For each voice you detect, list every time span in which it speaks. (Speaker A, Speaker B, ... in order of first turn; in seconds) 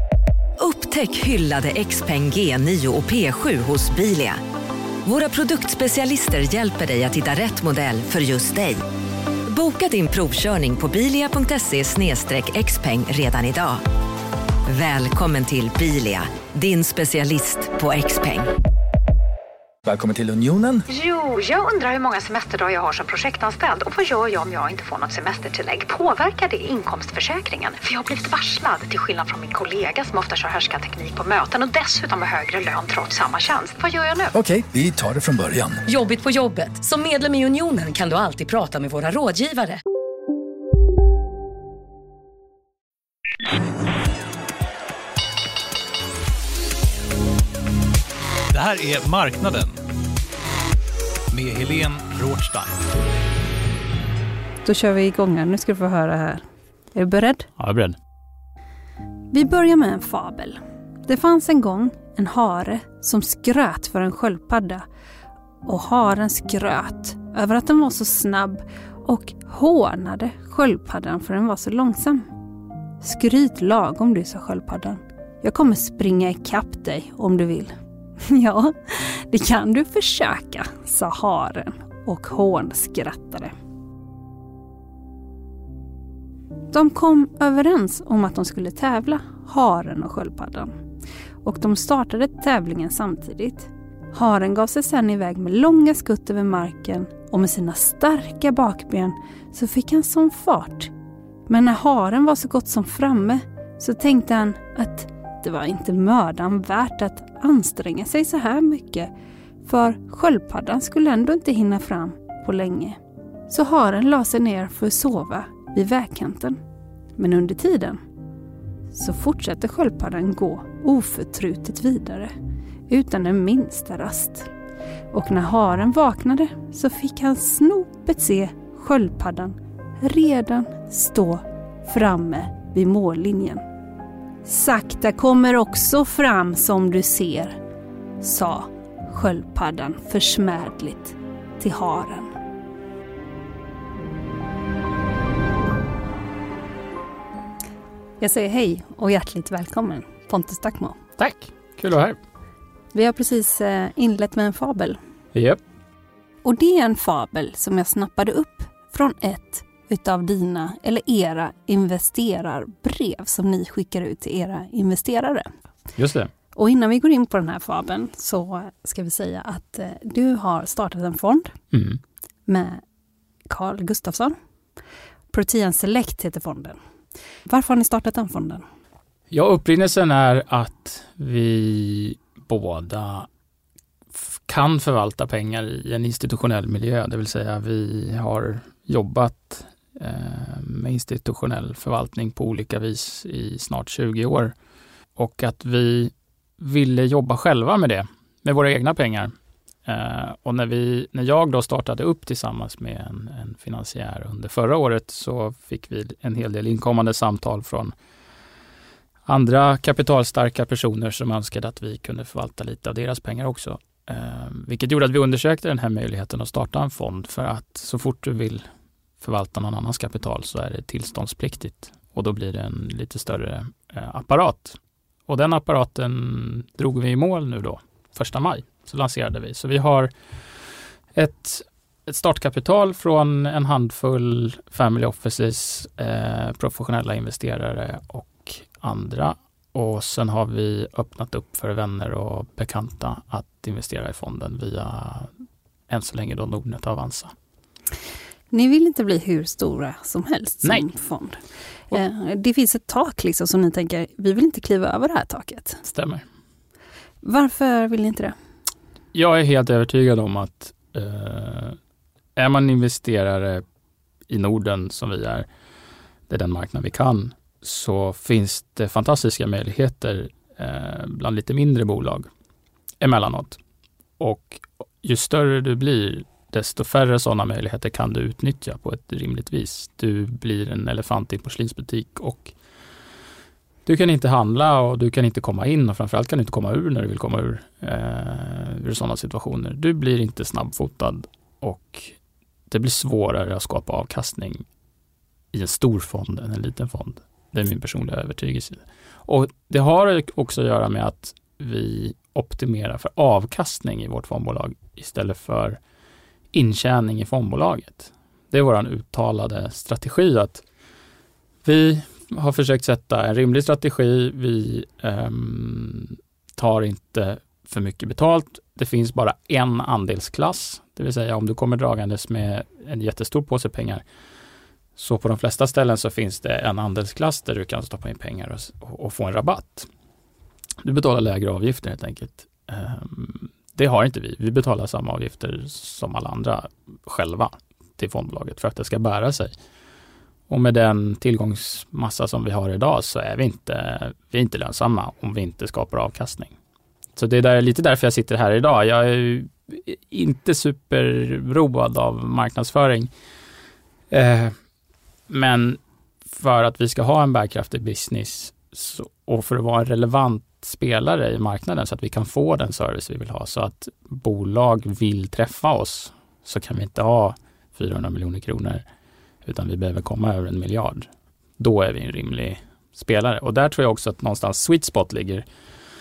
Speaker A: 0.6-4.4, 5.0-8.8, 9.5-13.8, 14.7-18.5
Speaker B: 19.9-20.9, 34.3-35.8
Speaker C: 20.9-34.3
Speaker D: 35.9-39.8
Speaker E: 48.5-49.8, 51.3-52.8
Speaker F: 54.6-56.4, 56.9-57.5, 59.3-64.8, 65.7-72.3, 73.0-83.5, 86.7-90.7, 91.4-100.9, 101.5-109.1, 109.7-116.6, 117.2-118.0, 118.9-122.3, 122.9-124.5, 125.1-133.6, 134.5-137.6, 138.2-142.3, 148.2-151.0, 152.9-155.0, 156.4-165.5, 166.6-171.6, 172.5-172.8, 173.5-174.3, 175.3-176.8, 177.5-178.6, 248.5-251.4, 251.9-255.8, 257.2-258.4
Speaker G: 57.6-58.0, 151.2-152.2, 155.3-155.6, 166.0-166.3, 171.7-172.0, 179.3-183.3, 184.2-194.6, 195.2-199.3, 199.8-207.9, 209.3-218.6, 219.2-230.1, 231.2-245.3, 245.9-247.3, 255.8-256.2, 259.1-261.8, 262.4-263.6, 264.3-265.5, 266.3-272.3, 273.0-273.6, 274.2-282.5, 283.9-292.2, 292.7-294.6, 295.5-305.8, 306.5-310.6, 311.6-324.0, 325.0-329.9, 330.8-339.5, 340.5-346.6, 347.2-353.1, 354.1-354.6, 355.3-368.9, 369.4-375.5